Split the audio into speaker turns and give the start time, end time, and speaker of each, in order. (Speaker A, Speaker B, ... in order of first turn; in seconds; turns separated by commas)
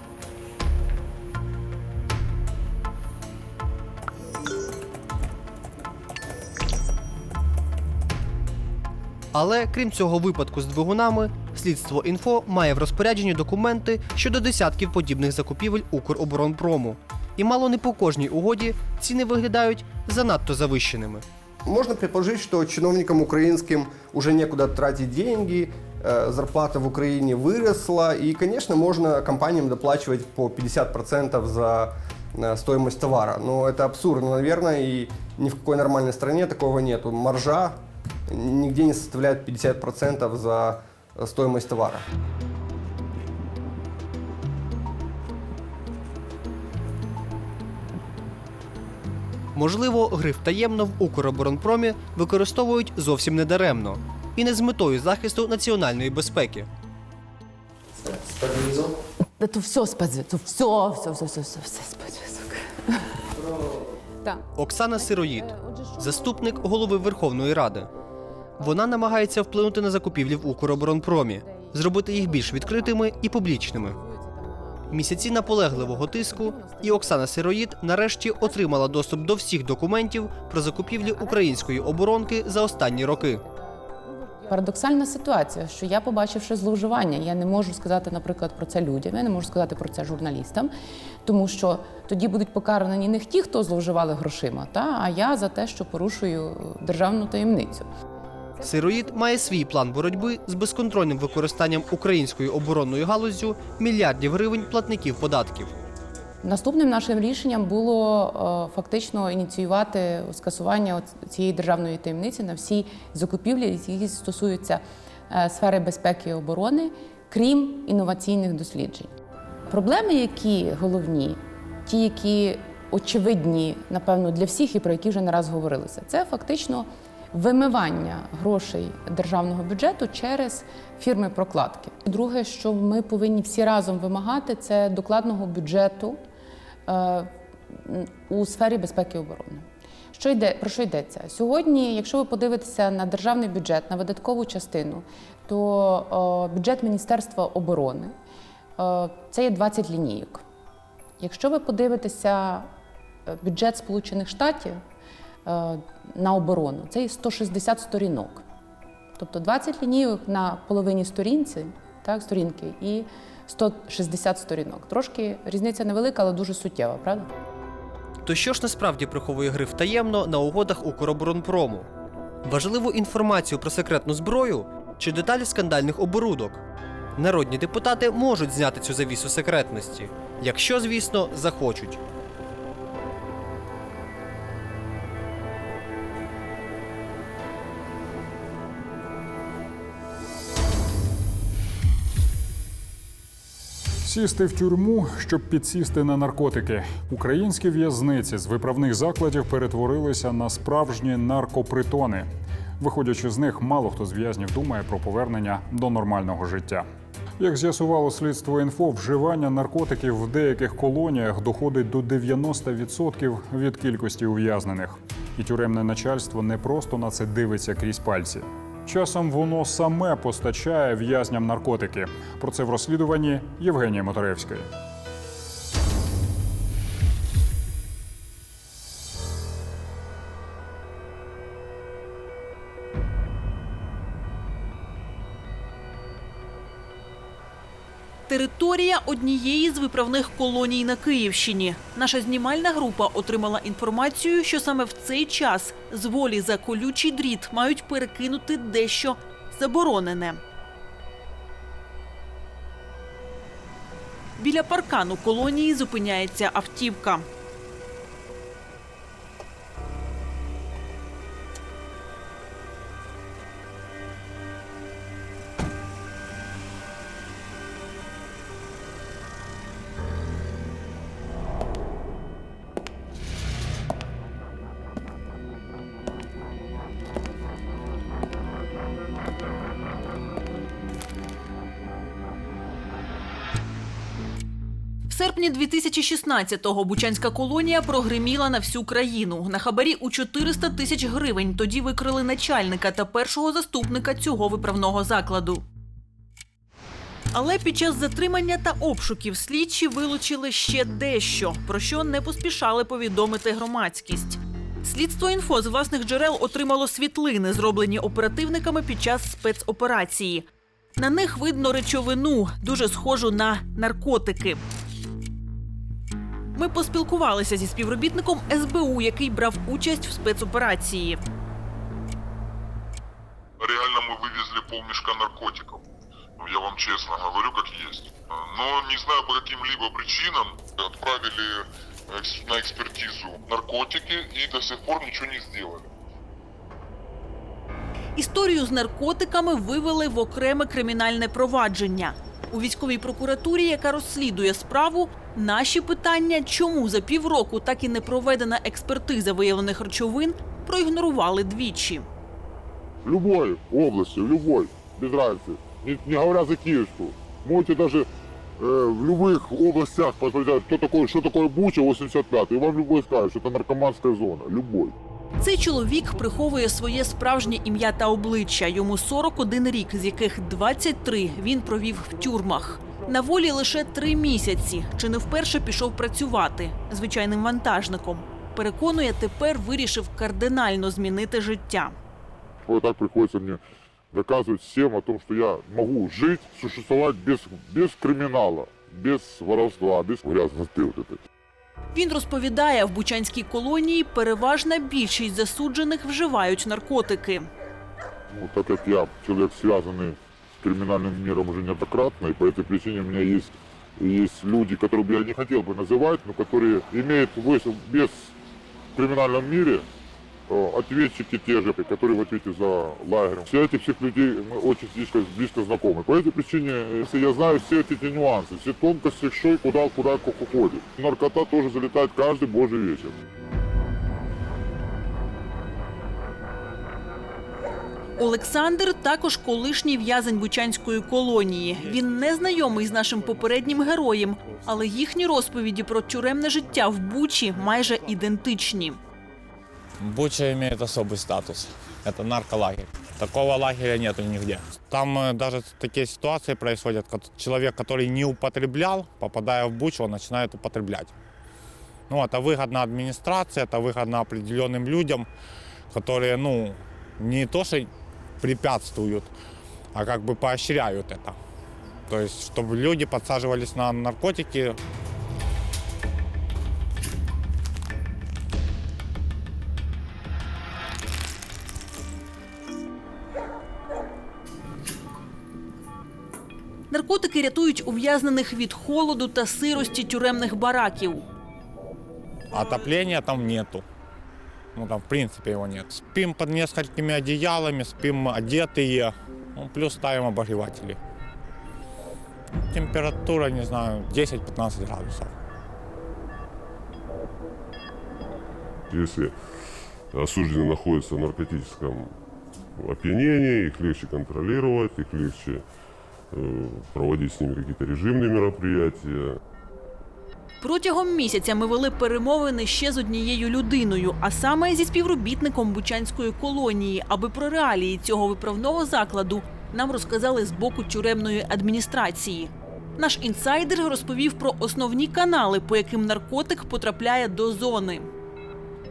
Speaker A: 9.3-21.2, Speaker B: 21.6-42.1, Speaker A: 49.5-56.7, Speaker C: 58.0-58.8, Speaker C: 59.4-63.5, Speaker C: 64.2-67.1, Speaker A: 64.5-67.9, Speaker C: 68.6-69.3, Speaker A: 68.6-74.0, Speaker C: 70.0-77.3, Speaker A: 74.9-83.4, Speaker C: 80.7-90.7, Speaker C: 91.2-97.9, Speaker C: 98.5-100.4, Speaker A: 98.6-105.7, Speaker C: 106.4-119.1, Speaker C: 119.7-136.2, Speaker C: 136.9-148.1, Speaker C: 148.8-150.4, Speaker C: 151.2-152.7, Speaker C: 153.3-154.8, Speaker C: 155.4-158.4, Speaker C: 159.2-167.3, Speaker A: 168.2-171.9, Speaker A: 172.4-176.6, Speaker A: 177.2-182.0, Speaker D: 194.0-202.3, Speaker D: 202.8-206.9, Speaker D: 207.4-224.7, Speaker E: 238.3-250.4, Speaker E: 254.4-257.2, Speaker E: 285.1-295.6, Speaker E: 297.3-314.6, Speaker E: 316.5-321.2, Speaker F: 323.6-325.8, Speaker F: 326.4-335.9, Speaker E: 338.1-352.1, Speaker G: 353.0-358.1, Speaker G: 358.6-364.9, Speaker E: 365.4-381.9, Speaker G: 382.6-383.6, Speaker G: 384.1-391.2, Speaker E: 391.9-397.5, Speaker G: 398.3-408.3, Speaker G: 408.9-409.9, Speaker G: 410.5-423.1, Speaker E: 428.2-439.0, Speaker H: 440.0-451.1, Speaker H: 452.1-455.3, Speaker H: 455.9-457.9, Speaker H: 458.4-459.3, Speaker H: 459.9-461.4, Speaker H: 462.1-464.8, Speaker E: 476.9-481.2, Speaker H: 482.5-483.8, Speaker H: 484.7-491.0, Speaker H: 492.5-495.3, Speaker I: 498.9-502.1, Speaker I: 502.8-505.6, Speaker I: 506.3-509.4, Speaker E: 510.6-528.1